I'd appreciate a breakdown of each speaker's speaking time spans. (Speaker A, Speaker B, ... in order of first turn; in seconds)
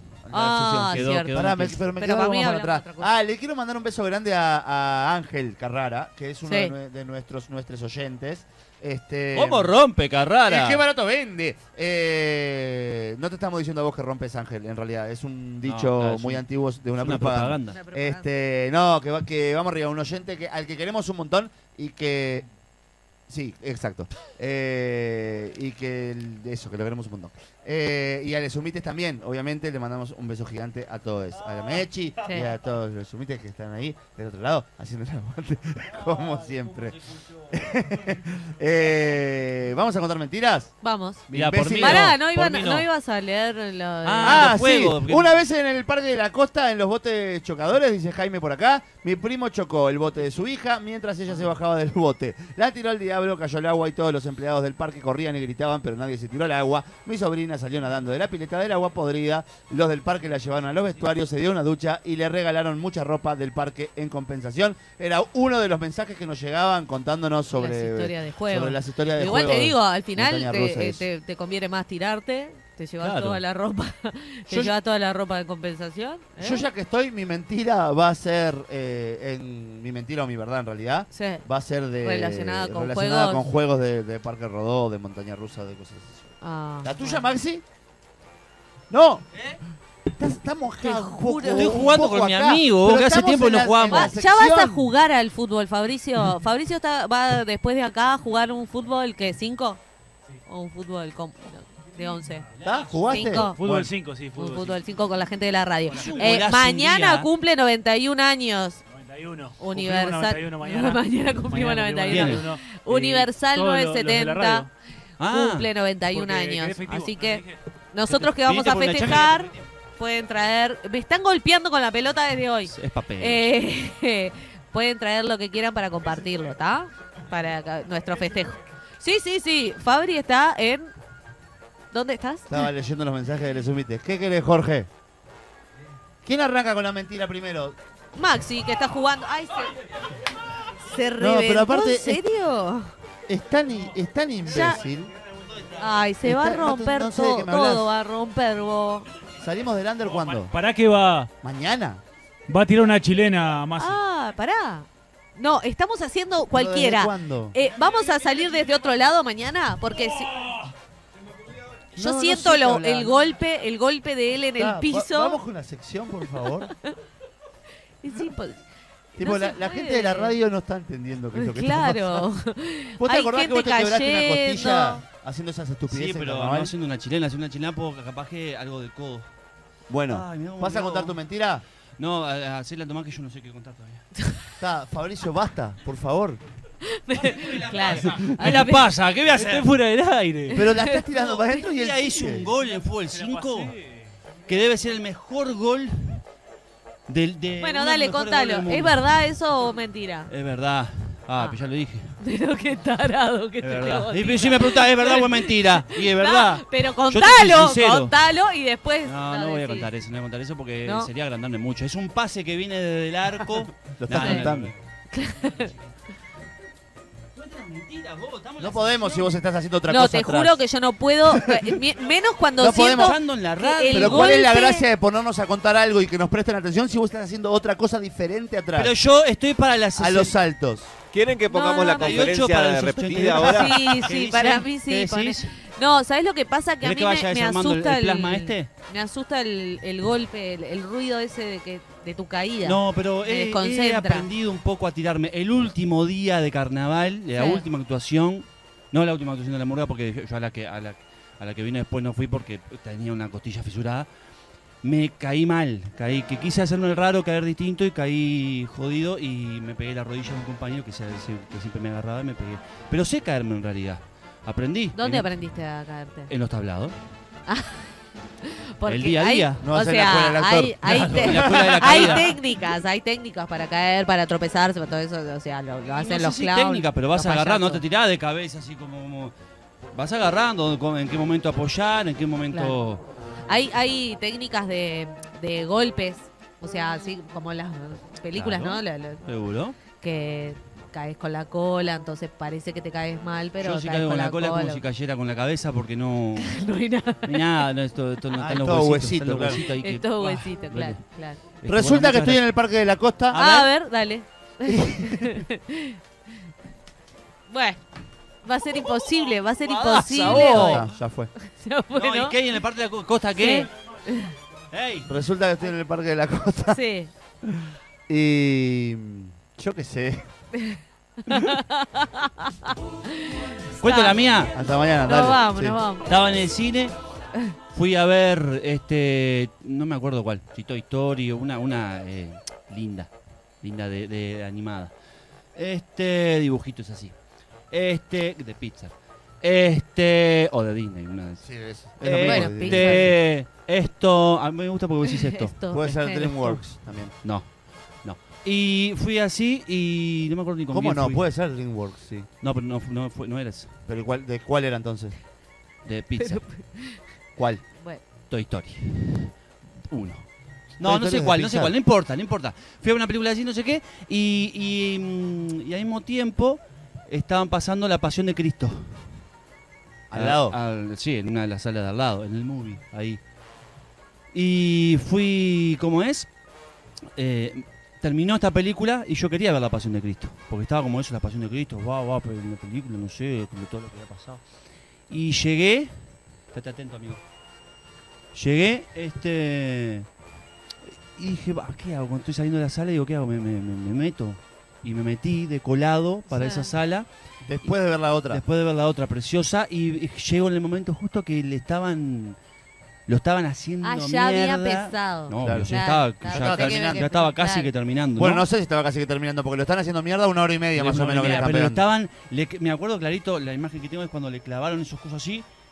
Speaker A: 0.2-9.7, 10.4-22.5, 23.3-40.7, 41.3-42.1, 44.2-71.1, 74.5-74.7, 76.4-86.3, 86.8-87.6, 88.9-89.2, 90.2-94.9, 102.6-103.9, 132.5-134.9, 136.2-137.8, 141.2-142.2, 143.3-145.1, 146.2-147.9, 149.4-150.5, 151.4-152.0, 156.5-157.6, 161.9-163.2, 164.6-166.7, 169.2-172.2, 173.0-176.7, 179.9-181.6, 184.6-186.4, 190.6-192.5, 213.9-214.7, 218.6-220.6, 221.3-221.7, 222.6-223.2, 223.9-228.9, 229.9-230.9, 269.6-272.3, 298.3-299.6, 301.7-303.4, 304.7-305.4, 310.3-311.3, 315.1-316.8, 317.4-320.3, 324.5-325.8, 341.4-343.1, 345.7-347.1, 350.7-352.3, 353.9-355.2, 357.4-357.6, 360.8-361.8, 370.1-370.6, 397.4-398.4, 405.4-407.0, 408.2-411.8
Speaker B: 0.3-1.4, 1.9-3.1, 6.4-6.7, 17.7-18.3, 32.2-32.5, 40.8-41.2, 41.8-44.5, 67.5-76.6, 81.1-81.4, 82.0-83.5, 86.4-87.3, 90.8-91.9, 93.9-99.8, 100.4-102.5, 103.0-103.6, 104.3-108.8, 109.6-114.7, 115.3-130.9, 131.9-132.7, 138.1-139.8, 140.7-142.9, 144.4-144.8, 145.8-149.1, 153.8-160.5, 162.0-165.4, 168.0-168.6, 169.2-170.3, 171.3-175.0, 184.2-184.5, 186.8-188.9, 190.5-191.6, 197.6-200.3, 202.2-209.9, 210.8-211.1, 214.2-214.5, 215.1-215.7, 219.9-224.8, 231.5-232.3, 233.4-244.3, 247.3-247.7, 264.9-266.3, 267.4-277.8, 282.5-282.8, 283.5-289.2, 289.9-294.8, 296.4-297.6, 299.5-301.4, 303.3-306.0, 307.5-307.8, 308.4-310.8, 311.4-312.4, 313.3-314.3, 316.7-317.1, 320.6-324.2, 325.0-326.1, 342.1-343.1, 345.0-346.6, 356.2-357.0, 357.7-358.0, 396.3-396.7, 403.8-407.7
Speaker C: 0.9-1.8, 9.3-10.8, 15.6-16.4, 17.0-17.8, 41.3-42.9, 44.0-45.3, 73.0-73.4, 91.4-94.1, 106.0-107.3, 112.1-112.5, 115.2-115.7, 118.1-119.6, 122.7-123.5, 175.9-179.3, 180.1-181.2, 182.0-184.1, 187.1-190.5, 191.6-193.8, 194.4-196.2, 197.1-199.2, 200.3-202.1, 203.6-208.1, 209.0-214.8, 217.3-219.3, 222.8-224.3, 228.7-230.3, 231.6-235.5, 236.8-238.7, 242.6-254.1, 254.8-265.2, 266.3-266.9, 268.9-269.7, 270.8-272.4, 275.9-279.3, 279.9-283.0, 288.3-289.8, 293.6-296.7, 297.2-302.4, 303.3-303.7, 309.6-310.9, 311.9-313.7, 314.7-315.1, 323.8-324.5, 326.1-326.9, 327.7-333.1, 333.6-334.9, 335.5-337.1, 337.7-341.4, 342.0-345.6, 347.2-347.5, 348.0-351.2, 352.4-353.7, 355.8-356.4, 358.3-359.3, 359.9-360.2, 360.8-369.2, 370.1-373.2, 374.3-376.3, 377.1-384.4, 385.1-385.9, 386.5-387.2, 388.3-390.1, 391.1-397.1, 398.3-402.4, 403.1-408.4, 410.8-415.4
Speaker D: 102.6-104.8, 108.9-114.7, 116.0-117.5, 150.1-151.3, 152.5-154.0, 189.3-190.6, 193.1-193.9
Speaker E: 231.1-233.7